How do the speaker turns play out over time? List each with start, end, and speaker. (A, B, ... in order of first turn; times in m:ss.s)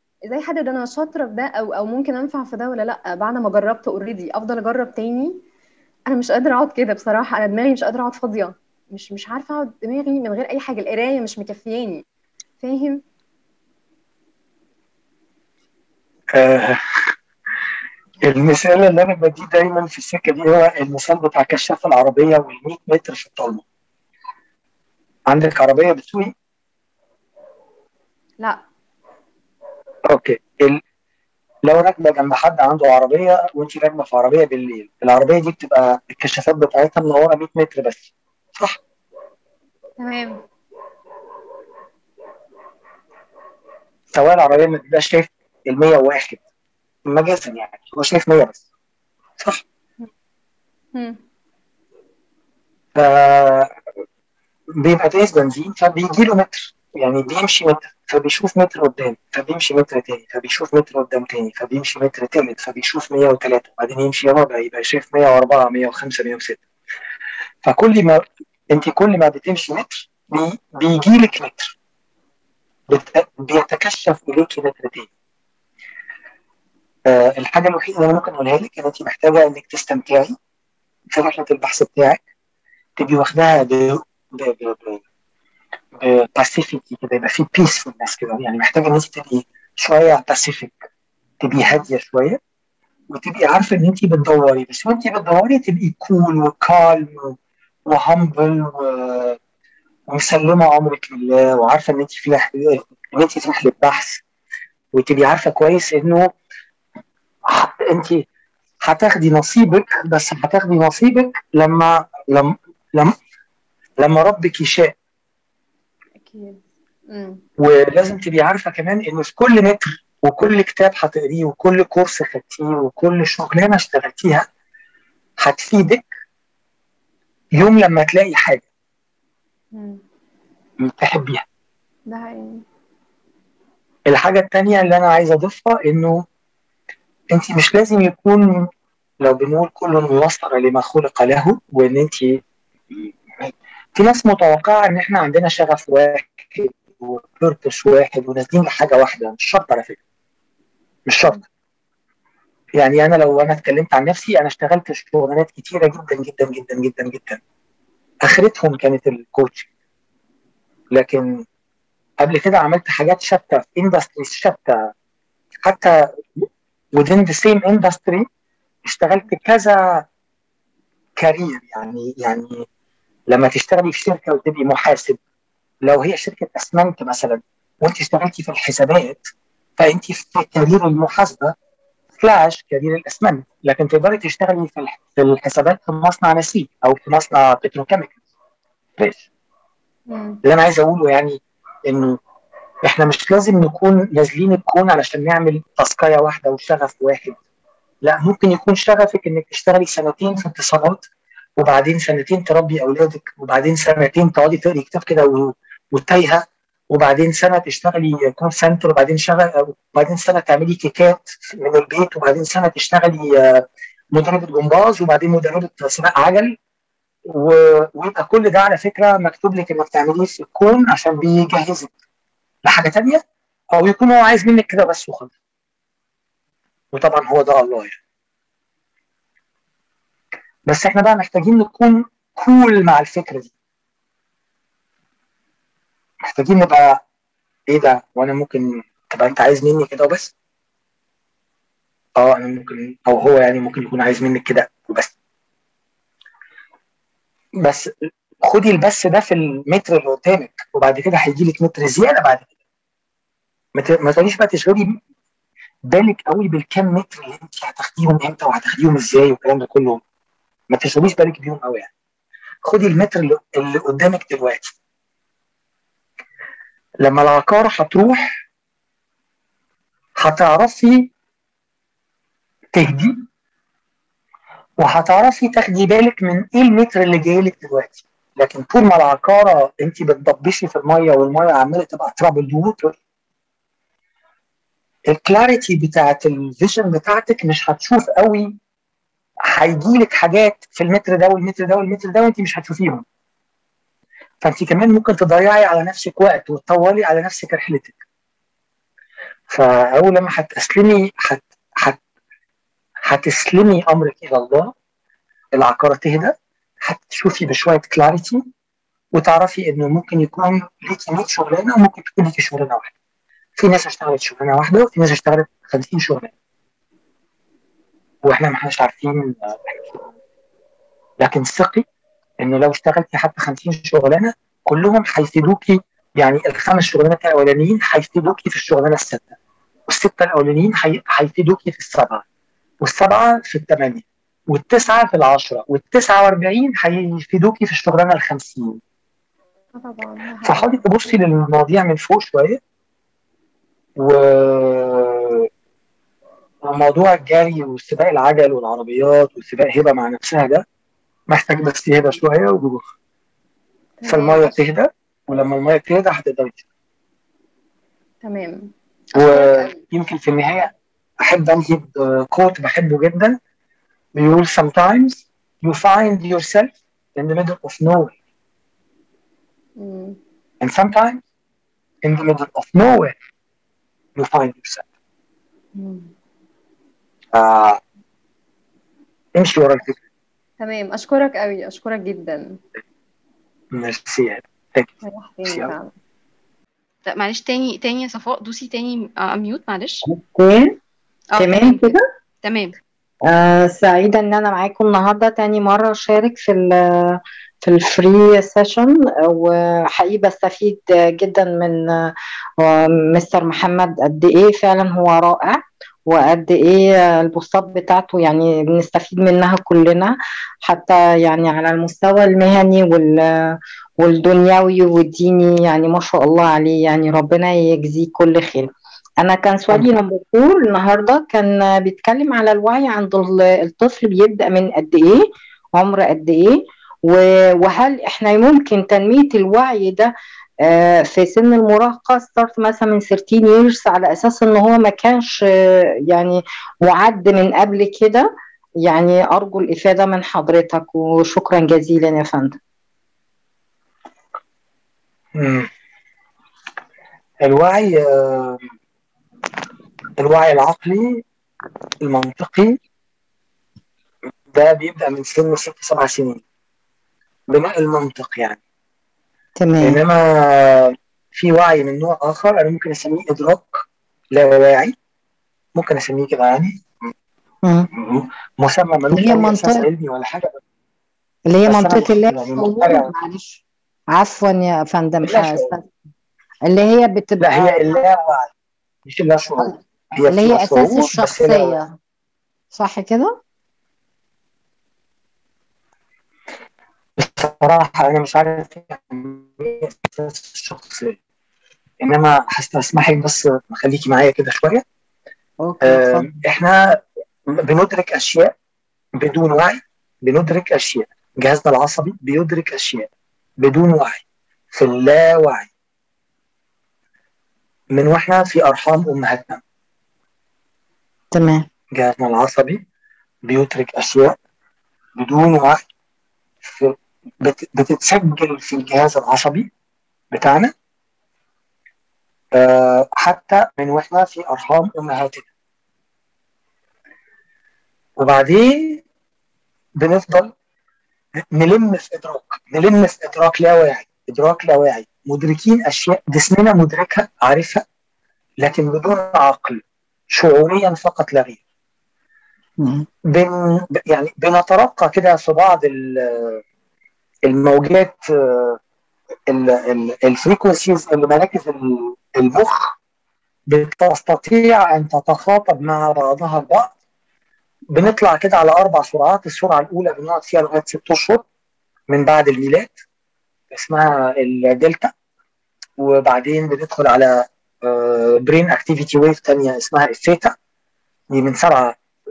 0:00.2-0:05.4 A
0:06.1-0:12.0 A
0:12.6-0:13.0 A
0:16.3-0:17.1 B
0:18.2-0:23.6 B
0:25.3-0:26.3 B
0:30.1-0:30.8 B
0:31.6-0:38.8 B
0:40.0-0:40.4 A
0:44.1-0:46.4 B
0:47.0-0:48.6 B
0:50.9-0:51.2 A
0:52.9-0:53.7 B
0:54.8-1:06.6 B
1:07.6-1:11.7 B
1:12.9-1:15.1 B
1:17.1-1:20.3 B
1:21.1-1:22.2 B
1:23.0-1:25.0 B
1:26.0-1:30.7 B
1:31.4-1:32.4 B
1:31.6-1:31.8 A
1:33.1-1:37.4 B
1:37.9-1:39.4 B
1:40.1-1:44.2 B
1:44.9-1:46.3 B
1:47.5-1:48.2 B
1:48.8-1:53.1 B
1:54.0-1:54.9 B
1:56.2-1:57.4 A
1:57.6-2:04.5 B
2:05.4-2:06.1 B
2:07.6-2:08.6 B
2:09.7-2:10.0 A
2:10.8-2:11.4 B
2:12.1-2:12.6 A
2:14.1-2:16.2 B
2:17.3-2:18.7 B
2:19.2-2:22.4 B
2:23.4-2:30.0 B
2:31.1-2:31.4 B
2:32.8-2:37.4 B
2:38.2-2:39.7 B
2:40.9-2:41.4 B
2:42.2-2:44.8 B
2:45.6-2:48.2 B
2:48.8-2:50.0 B
2:51.2-2:52.6 B
2:53.3-2:55.2 B
2:55.8-2:59.2 B
2:59.8-3:01.5 B
3:02.2-3:08.1 B
3:10.1-3:10.4 A
3:10.4-3:12.2 B
3:12.8-3:17.4 B
3:18.0-3:21.0 B
3:21.6-3:36.6 B
3:37.3-3:41.9 B
3:42.6-3:43.2 B
3:43.7-3:45.3 B
3:46.9-3:48.0 B
3:50.7-3:53.5 B
3:56.2-3:57.0 B
3:57.7-4:00.3 B
4:02.2-4:05.1 B
4:07.6-4:07.9 B
4:08.4-4:12.5 B
4:13.7-4:15.0 B
4:15.9-4:20.0 B
4:20.7-4:21.9 B
4:22.6-4:24.7 B
4:27.0-4:28.4 B
4:30.2-4:31.1 B
4:32.7-4:33.2 B
4:34.8-4:42.9 B
4:45.1-4:48.5 B
4:49.5-4:53.0 B
4:54.4-4:58.0 B
4:59.5-5:02.0 B
5:03.0-5:04.7 B
5:05.5-5:08.4 B
5:09.1-5:12.9 B
5:13.6-5:16.3 B
5:18.2-5:20.0 B
5:21.2-5:21.8 B
5:22.4-5:29.3 B
5:29.9-5:32.2 B
5:32.8-5:38.8 B
5:39.7-5:40.7 A
5:40.4-5:42.6 B
5:44.0-5:45.5 B
5:46.6-5:50.6 B
5:51.3-5:52.8 B
5:54.0-5:54.5 A
5:54.0-5:56.6 B
5:58.2-5:58.7 A
5:59.2-6:03.4 B
5:59.2-5:59.8 A
6:04.2-6:08.1 B
6:09.8-6:10.2 A
6:10.6-6:11.2 B
6:12.0-6:13.1 B
6:14.2-6:14.8 B
6:15.7-6:16.1 A
6:17.3-6:17.8 B
6:19.4-6:20.0 B
6:20.6-6:22.6 A
6:23.7-6:24.9 B
6:25.0-6:25.9 A
6:25.4-6:25.7 B
6:27.1-6:30.0 C
6:30.0-6:30.8 D
6:31.3-6:31.9 C
6:31.4-6:32.0 D
6:32.4-6:32.7 C
6:33.2-6:53.2 D
6:54.0-7:05.2 D
7:05.8-7:10.1 D
7:10.6-7:15.4 D
7:16.1-7:18.3 D
7:18.8-7:22.6 D
7:25.3-7:25.7 B
7:27.4-7:28.6 B
7:30.2-7:31.2 B
7:32.0-7:32.8 B
7:34.5-7:36.4 B
7:37.5-7:38.6 B
7:39.6-7:40.0 D
7:39.8-7:44.9 B
7:45.7-7:47.1 B
7:47.6-7:47.9 D
7:47.9-7:50.6 B
7:49.1-7:49.9 D
7:51.5-7:53.6 D
7:51.6-7:53.1 B
7:54.1-7:55.9 D
7:55.2-7:55.7 B
7:56.7-7:57.8 D
7:57.4-7:58.5 B
7:59.0-8:01.8 B
8:00.3-8:01.9 D
8:02.7-8:03.4 D
8:07.2-8:11.2 B
8:12.0-8:14.8 B
8:15.6-8:16.3 D
8:15.8-8:18.5 B
8:19.2-8:25.7 B
8:27.9-8:29.6 B
8:31.3-8:31.6 D
8:31.9-8:32.8 B
8:33.4-8:34.4 B
8:35.2-8:35.8 B
8:36.6-8:39.7 B
8:40.3-8:40.7 B
8:42.5-8:45.4 B
8:48.2-8:49.0 B
8:50.0-8:50.5 B
8:51.4-8:57.8 B
8:58.6-9:01.6 B
9:02.8-9:03.1 D
9:03.3-9:06.6 B
9:07.4-9:08.8 B
9:09.5-9:12.9 B
9:13.7-9:16.9 B
9:17.9-9:21.4 B
9:22.1-9:22.9 B
9:23.7-9:25.1 B
9:26.0-9:30.5 B
9:31.3-9:32.0 B